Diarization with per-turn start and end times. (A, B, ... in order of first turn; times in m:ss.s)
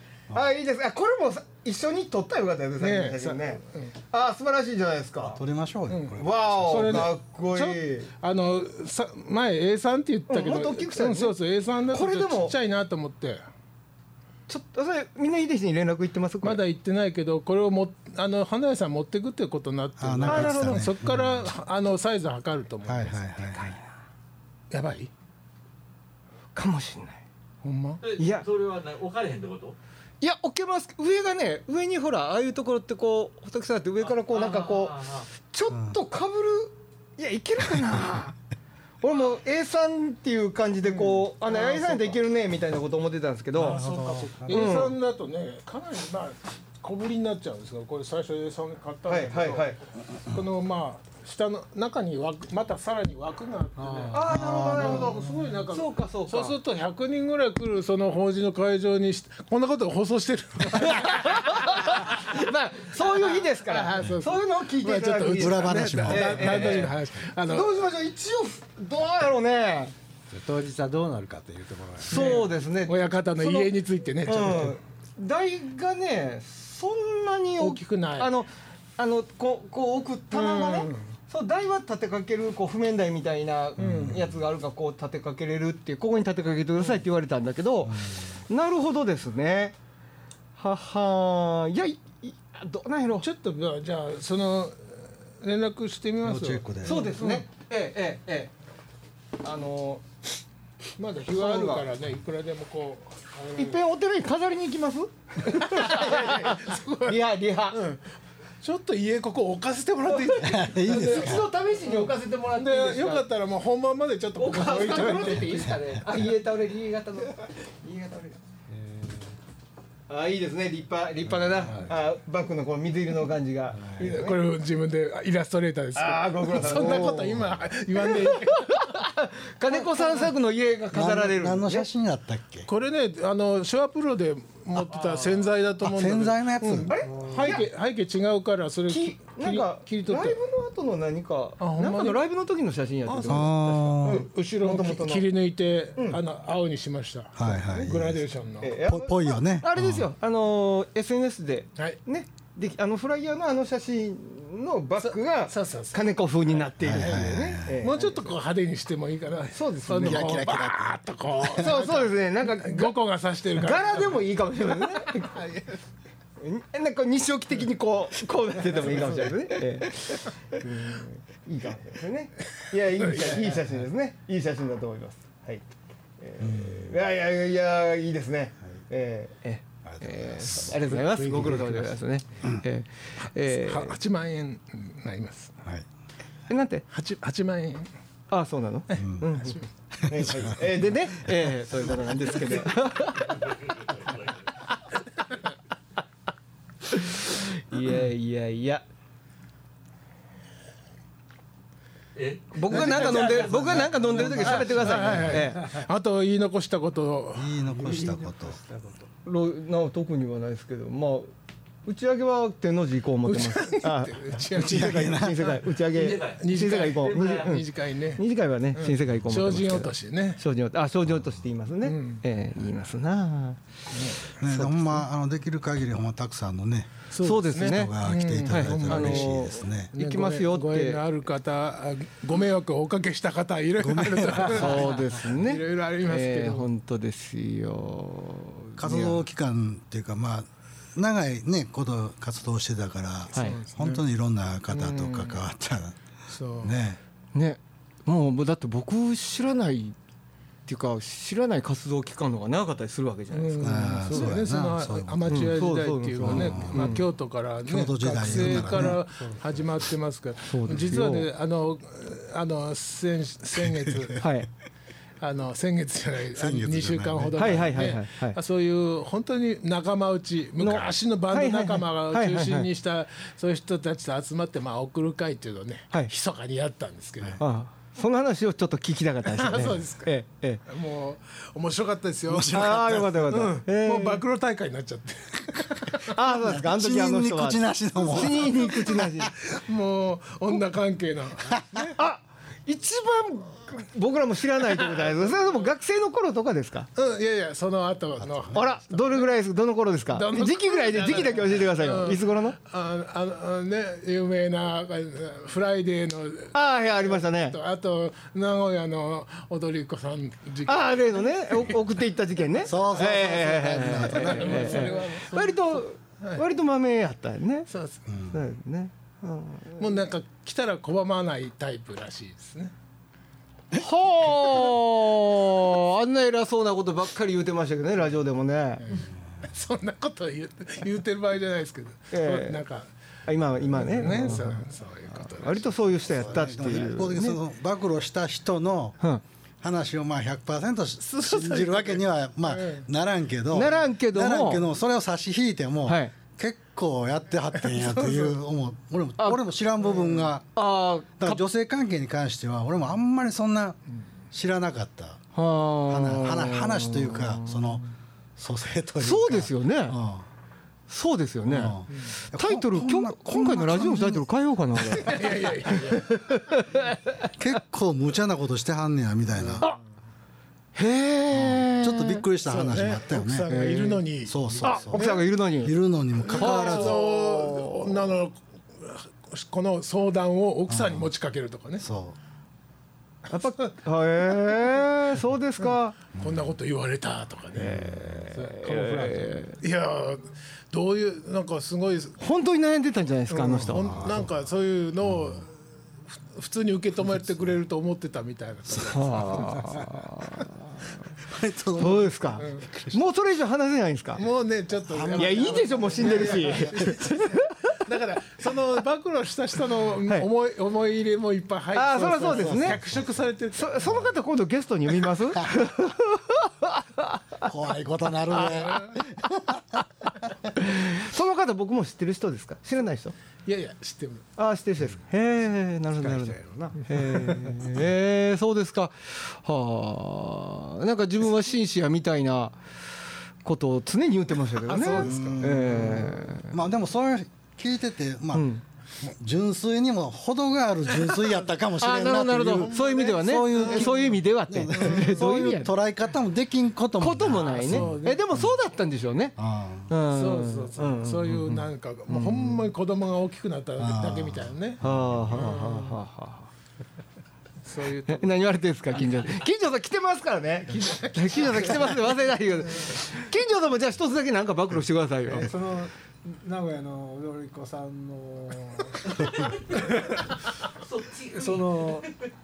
0:00.3-0:05.4 A
0:02.8-0:03.9 B
0:05.3-0:07.1 C
0:05.9-0:13.4 B
0:06.2-0:08.1 A
0:10.3-0:11.4 A
0:11.9-0:12.6 A
0:14.5-0:16.6 A
0:16.4-0:23.2 B
0:20.0-0:21.5 C
0:20.2-0:20.8 A
0:22.8-0:23.8 C
0:23.5-0:23.8 A
0:24.7-0:25.1 B
0:26.5-0:27.2 A
0:27.6-0:28.0 B
0:28.0-0:29.8 D
0:28.2-0:28.4 A
0:30.2-0:38.4 A
0:34.2-0:35.2 D
0:35.7-0:36.0 C
0:39.0-0:43.8 A
0:40.8-0:42.2 B
0:43.6-1:01.7 B
0:43.6-0:44.7 C
0:44.5-0:44.9 A
0:49.0-0:49.8 A
0:53.8-0:54.1 E
0:54.1-0:56.6 A
0:54.2-0:55.1 C
1:00.7-1:09.9 A
1:03.2-1:07.8 B
1:05.4-1:06.8 C
1:10.3-1:12.2 E
1:12.0-1:13.7 A
1:12.1-1:14.8 B
1:14.2-1:29.7 A
1:17.6-1:18.3 B
1:20.3-1:21.0 B
1:23.8-1:24.2 B
1:23.8-1:24.3 C
1:27.8-1:28.2 C
1:30.6-1:33.3 A
1:33.2-1:37.4 B
1:36.2-1:37.0 C
1:36.8-1:38.5 A
1:39.4-1:40.0 A
1:41.0-1:43.8 B
1:41.3-1:41.8 A
1:43.6-1:47.9 A
1:45.4-1:47.2 B
1:47.7-1:48.0 B
1:48.6-1:55.8 B
1:50.1-1:53.2 A
1:50.4-1:51.5 C
1:54.4-1:58.4 A
1:58.8-1:59.2 E
2:00.1-2:04.4 A
2:04.0-2:09.0 B
2:05.9-2:07.4 A
2:08.0-2:11.9 A
2:09.7-2:10.2 B
2:10.9-2:12.7 C
2:12.7-2:20.4 B
2:15.8-2:16.9 C
2:16.8-2:17.7 A
2:18.9-2:25.2 A
2:21.6-2:22.2 B
2:23.0-2:28.7 B
2:23.2-2:24.2 C
2:27.4-2:28.2 C
2:27.6-2:27.9 A
2:28.6-2:38.3 A
2:28.8-2:30.0 C
2:35.0-2:36.1 B
2:36.8-2:37.8 C
2:37.7-2:44.2 B
2:39.5-2:40.3 A
2:39.9-2:40.9 C
2:41.6-2:43.0 A
2:43.6-2:45.6 A
2:44.7-2:45.7 B
2:46.4-2:55.6 A
2:48.8-2:49.3 B
2:53.0-2:53.5 B
2:56.2-3:03.9 A
2:56.4-2:56.9 C
2:59.8-3:00.7 C
3:00.9-3:01.8 E
3:03.4-3:05.5 B
3:06.5-3:06.8 A
3:06.9-3:07.9 B
3:08.3-3:13.4 A
3:08.9-3:09.6 B
3:09.0-3:09.2 C
3:10.0-3:10.6 C
3:13.1-3:14.4 D
3:16.9-3:18.8 A
3:22.1-3:24.5 D
3:22.5-3:25.7 A
3:22.7-3:23.6 B
3:23.8-3:25.3 C
3:24.2-3:27.5 B
3:27.3-3:28.6 C
3:27.8-3:29.0 E
3:29.2-3:31.3 A
3:31.8-3:43.6 A
3:33.2-3:35.6 B
3:34.6-3:35.5 C
3:35.9-3:36.4 D
3:36.1-3:40.4 B
3:37.1-3:37.5 D
3:41.8-3:42.2 B
3:43.9-3:44.3 B
3:44.4-3:49.9 C
3:44.5-3:45.0 A
3:47.1-3:56.7 B
3:47.2-3:51.0 A
3:53.8-3:54.9 C
3:54.5-3:59.2 A
3:58.8-4:06.0 C
4:03.3-4:04.0 B
4:04.8-4:05.2 A
4:04.8-4:05.3 B
4:06.3-4:06.8 B
4:06.6-4:07.0 C
4:07.3-4:10.0 A
4:10.6-4:14.3 A
4:13.3-4:24.2 B
4:13.6-4:15.6 C
4:15.3-4:17.0 A
4:16.2-4:17.0 C
4:17.6-4:19.0 C
4:20.4-4:21.3 A
4:24.2-4:24.5 A
4:25.2-4:37.4 B
4:26.4-4:28.0 C
4:27.4-4:28.4 A
4:30.6-4:32.7 A
4:37.4-4:40.6 A
4:39.3-4:40.1 B
4:40.6-4:42.8 B
4:42.3-4:43.3 C
4:42.5-4:44.2 A
4:43.3-4:46.1 B
4:46.1-4:49.3 A
4:46.3-4:49.1 C
4:49.0-4:52.0 B
4:52.0-4:56.9 A
4:55.0-4:55.3 B
4:57.0-4:59.3 B
4:58.2-4:58.6 C
4:58.5-5:02.6 A
5:00.1-5:11.7 B
5:06.5-5:07.6 A
5:10.6-5:17.7 A
5:12.6-5:14.9 C
5:12.7-5:16.4 B
5:17.7-5:18.0 B
5:18.1-5:18.4 C
5:18.3-5:19.9 A
5:19.8-5:22.7 B
5:23.7-5:28.9 A
5:28.8-5:32.9 B
5:32.1-5:32.6 A
5:33.3-5:37.4 A
5:33.7-5:35.9 B
5:36.1-5:39.0 C
5:39.6-5:50.5 C
5:41.2-5:41.7 A
5:42.4-5:42.8 B
5:43.5-5:44.6 A
5:45.8-5:46.1 A
5:47.7-5:48.3 B
5:50.5-5:51.4 A
5:51.2-5:53.8 C
5:54.3-5:55.2 C
5:55.3-5:57.8 A
5:55.9-5:57.8 C
5:58.4-6:00.2 C
5:59.0-6:00.0 A
6:00.9-6:07.3 A
6:01.5-6:04.2 C
6:05.0-6:06.2 B
6:07.4-6:09.6 C
6:10.7-6:12.2 A
6:11.3-6:13.5 C
6:12.4-6:15.2 B
6:13.5-6:14.0 A
6:14.2-6:17.0 C
6:14.6-6:15.8 A
6:16.2-6:21.8 B
6:16.3-6:18.0 A
6:20.7-6:21.1 C
6:21.8-6:22.2 C
6:23.3-6:25.9 A
6:26.2-6:26.5 C
6:26.2-6:32.2 B
6:27.6-6:29.6 A
6:27.6-6:28.2 C
6:32.2-6:34.2 A
6:33.3-6:35.5 B
6:33.7-6:34.3 C
6:35.0-6:35.4 C
6:36.1-6:40.4 B
6:38.8-6:40.5 A
6:41.2-6:43.0 C
6:41.8-6:44.2 A
6:42.4-6:42.7 B
6:44.2-6:54.0 B
6:45.0-6:45.4 C
6:45.1-6:47.8 A
6:51.7-6:52.8 A
6:52.2-6:53.2 C
6:53.5-6:57.2 A
6:53.8-6:54.1 C
6:57.4-6:59.8 C
6:58.4-6:58.9 B
7:00.5-7:03.1 A
7:03.4-7:04.2 B
7:04.4-7:12.6 A
7:06.0-7:07.5 E
7:13.4-7:16.5 A
7:14.7-7:15.4 B
7:15.0-7:18.5 C
7:18.3-7:18.6 A
7:19.0-7:28.5 C
7:21.8-7:25.7 A
7:22.6-7:24.1 B
7:24.7-7:25.1 B
7:27.0-7:29.4 A
7:27.4-7:28.2 B
7:29.4-7:29.9 C
7:29.9-7:32.6 A
7:30.1-7:34.8 B
7:33.8-7:35.5 C
7:34.8-7:36.5 A
7:35.3-7:36.0 B
7:37.6-7:38.4 B
7:38.1-7:45.5 A
7:45.3-7:49.8 E
7:49.2-7:50.2 D
7:50.8-7:52.1 D
7:51.3-7:52.1 E